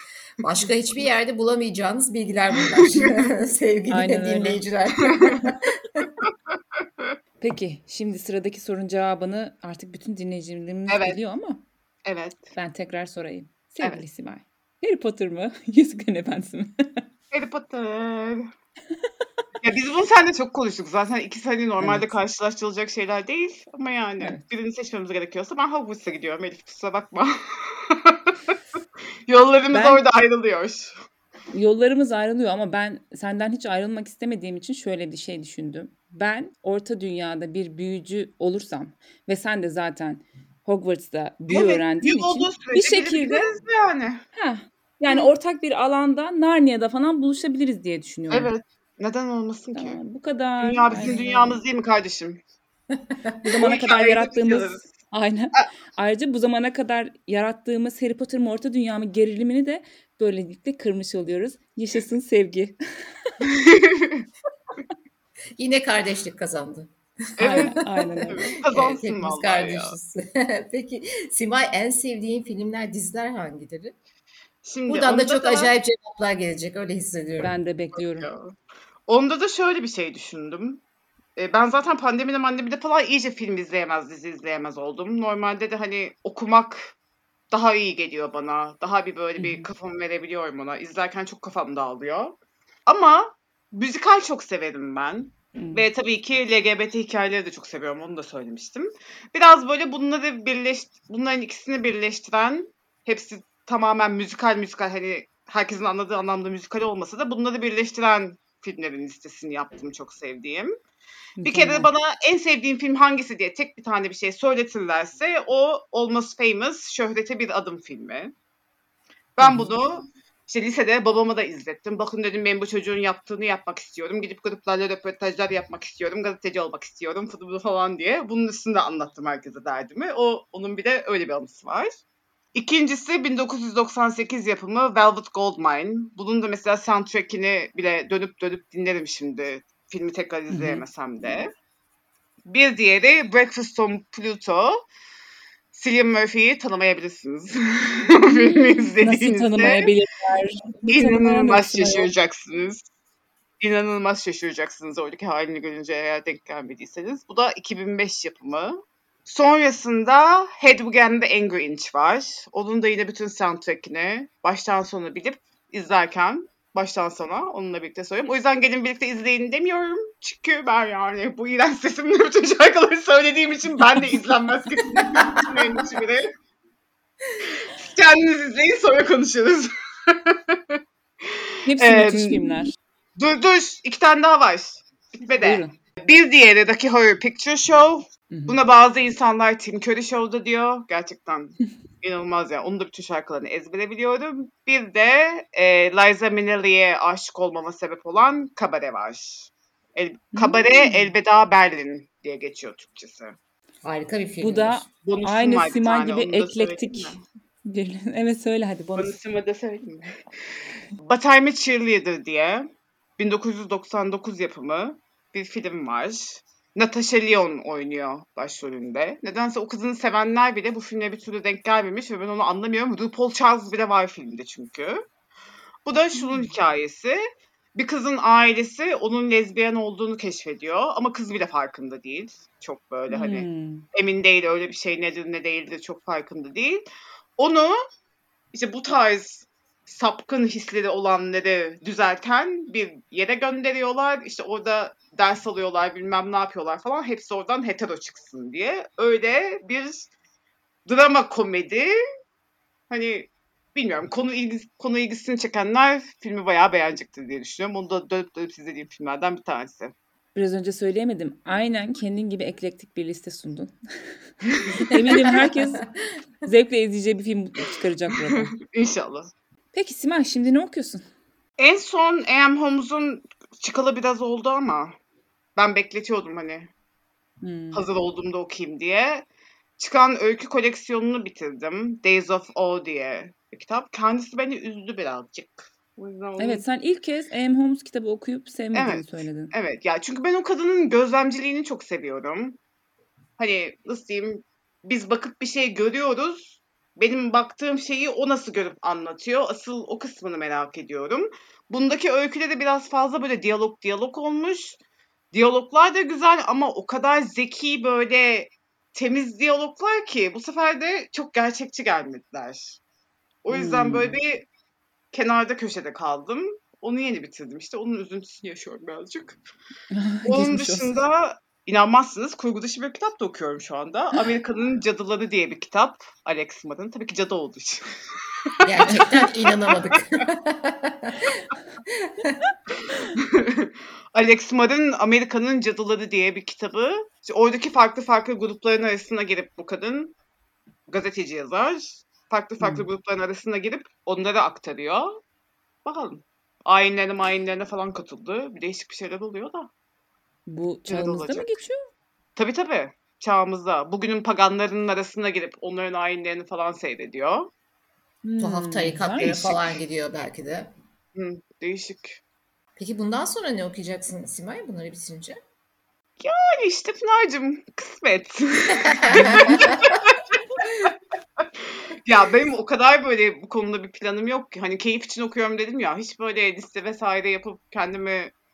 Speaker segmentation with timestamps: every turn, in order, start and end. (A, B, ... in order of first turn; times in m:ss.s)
0:00.4-0:06.1 A
0:03.9-0:04.6 B
0:05.2-0:05.4 C
0:07.4-0:11.6 B
0:10.9-0:11.2 C
0:12.1-0:12.5 C
0:12.6-0:17.1 B
0:17.3-0:18.5 C
0:19.6-0:28.6 C
0:21.8-0:22.1 B
0:29.3-0:30.9 C
0:29.7-0:30.0 B
0:31.5-0:43.5 B
0:41.5-0:44.2 C
0:44.4-0:48.5 B
0:48.3-0:50.0 C
0:49.8-0:51.6 B
0:50.6-0:52.4 C
0:52.9-0:53.4 A
0:53.4-1:03.3 B
0:53.6-0:54.9 C
1:03.4-1:04.3 C
1:05.6-1:14.0 A
1:07.4-1:10.0 C
1:07.4-1:08.5 B
1:14.6-1:15.7 C
1:14.9-1:17.6 A
1:17.4-1:18.3 B
1:18.0-1:18.5 C
1:19.1-1:20.8 C
1:21.4-1:27.0 C
1:27.5-1:32.4 C
1:29.4-1:29.7 B
1:32.9-1:50.7 C
1:35.6-1:35.8 B
1:51.4-1:51.9 B
1:51.4-1:58.3 C
1:59.4-2:11.9 C
1:59.4-1:59.7 B
2:12.6-2:21.5 C
2:20.5-2:20.8 B
2:22.5-2:24.8 C
2:25.7-2:29.9 C
2:28.3-2:32.1 B
2:30.9-2:32.8 C
2:33.6-2:56.3 C
2:57.5-3:02.6 C
3:01.7-3:02.8 B
3:03.2-3:23.4 C
3:05.4-3:05.7 B
3:08.3-3:08.6 B
3:20.3-3:21.1 B
3:23.8-3:24.8 A
3:24.4-3:29.2 B
3:25.0-3:27.2 C
3:29.0-3:30.2 C
3:31.0-3:32.7 C
3:33.2-3:45.0 C
3:45.9-3:47.2 C
3:46.2-3:46.5 B
3:47.8-3:56.8 C
3:53.1-3:53.9 B
3:57.4-3:57.8 C
3:58.5-4:10.1 C
4:10.9-4:12.0 C
4:12.9-4:19.9 C
4:20.4-4:24.3 B
4:24.5-4:25.4 C
4:24.8-4:25.9 B
4:25.9-4:26.1 A
4:26.4-4:28.5 B
4:28.2-4:29.3 C
4:29.7-4:31.1 B
4:31.6-4:35.0 C
4:35.6-4:36.7 C
4:37.4-4:37.8 B
4:37.7-4:39.2 C
4:39.8-4:46.6 C
4:46.4-4:49.5 B
4:48.7-4:52.6 C
4:53.4-5:04.8 C
5:05.3-5:12.8 C
5:13.4-5:14.5 C
5:13.5-5:14.2 B
5:15.1-5:19.4 C
5:19.9-5:21.0 B
5:20.3-5:27.8 C
5:28.4-5:30.0 C
5:28.6-5:32.5 A
5:33.2-5:40.1 C
5:40.9-5:45.1 C
5:45.8-5:49.7 C
5:50.5-5:51.9 B
5:50.9-5:51.6 C
5:52.4-5:57.5 C
5:58.2-5:59.6 B
5:58.4-6:00.7 A
6:01.2-6:02.2 C
6:02.8-6:05.4 A
6:06.2-6:18.3 C
6:08.8-6:09.9 A
6:09.1-6:09.6 B